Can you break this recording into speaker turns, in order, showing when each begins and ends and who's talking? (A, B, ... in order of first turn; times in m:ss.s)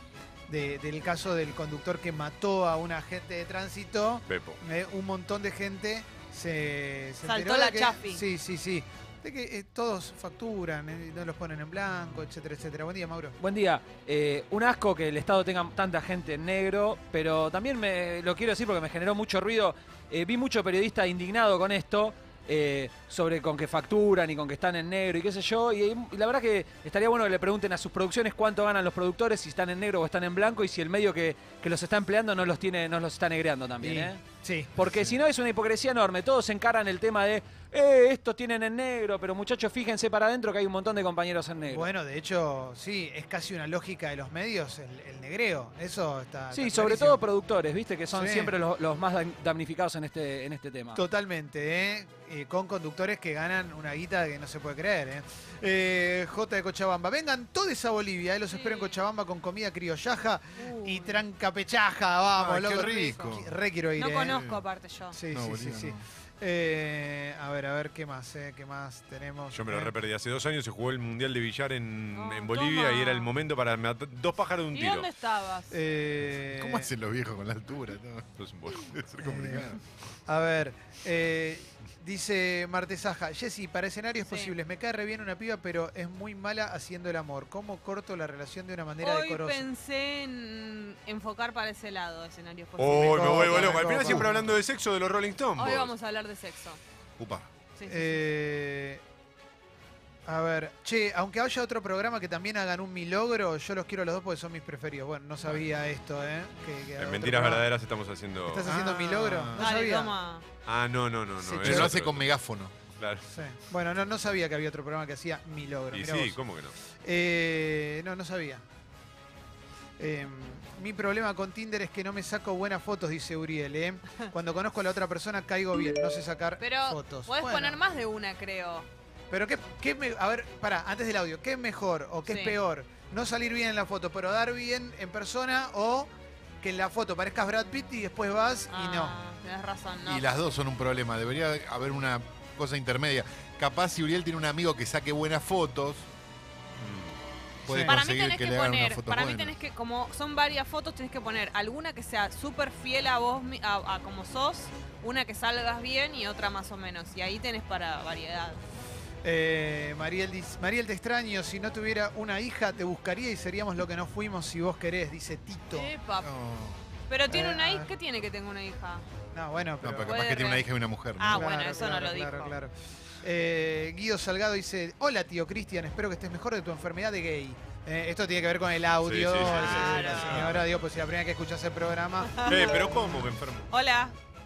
0:00.5-0:13.4 A
0:04.3-0:04.6 B
0:07.2-0:08.2 C
0:13.4-0:34.2 D
0:33.8-0:34.7 A
0:34.8-0:41.9 D
0:34.8-0:35.2 E
0:41.7-0:47.2 A
0:46.5-0:51.0 D
0:48.1-0:48.6 A
0:50.9-1:04.4 A
0:58.5-0:59.0 C
1:00.6-1:01.2 C
1:02.4-1:03.5 E
1:02.8-1:03.2 C
1:04.0-1:05.2 C
1:04.3-1:04.6 E
1:05.1-1:09.9 A
1:05.3-1:06.0 E
1:09.5-1:15.1 B
1:12.1-1:13.3 C
1:14.7-1:15.8 C
1:15.7-1:16.9 A
1:16.4-1:19.8 E
1:18.4-1:19.6 B
1:19.2-1:19.7 A
1:20.2-1:29.7 A
1:24.2-1:24.6 C
1:29.0-1:34.1 C
1:32.8-1:35.9 B
1:33.0-1:34.5 A
1:35.6-1:36.8 C
1:37.2-1:37.5 E
1:37.8-1:38.2 C
1:37.9-1:39.0 A
1:40.2-1:47.7 A
1:47.0-1:48.7 B
1:48.4-1:50.2 A
1:48.6-1:49.6 E
1:49.6-1:50.4 C
1:50.7-1:52.3 B
1:51.4-1:51.9 A
1:51.6-1:52.7 E
1:53.0-1:53.2 B
1:53.3-1:56.4 A
1:55.9-1:56.7 B
1:57.0-1:58.6 A
2:00.0-2:07.8 A
2:06.6-2:08.9 C
2:09.3-2:16.1 A
2:12.2-2:12.6 C
2:16.6-2:19.2 A
2:18.7-2:20.2 C
2:20.0-2:26.1 E
2:26.8-2:27.2 B
2:27.7-2:29.6 E
2:27.7-2:28.0 A
2:27.8-2:38.6 C
2:39.2-2:45.9 A
2:45.7-2:46.3 C
2:46.2-2:46.8 E
2:47.1-2:49.1 C
2:47.3-2:47.9 A
2:49.3-2:50.2 A
2:49.8-2:51.6 E
2:50.1-2:50.6 C
2:51.2-2:52.6 C
2:51.3-3:02.8 A
2:59.0-3:00.6 B
2:59.4-3:00.5 C
3:02.3-3:03.1 C
3:02.4-3:03.7 B
3:03.7-3:04.1 C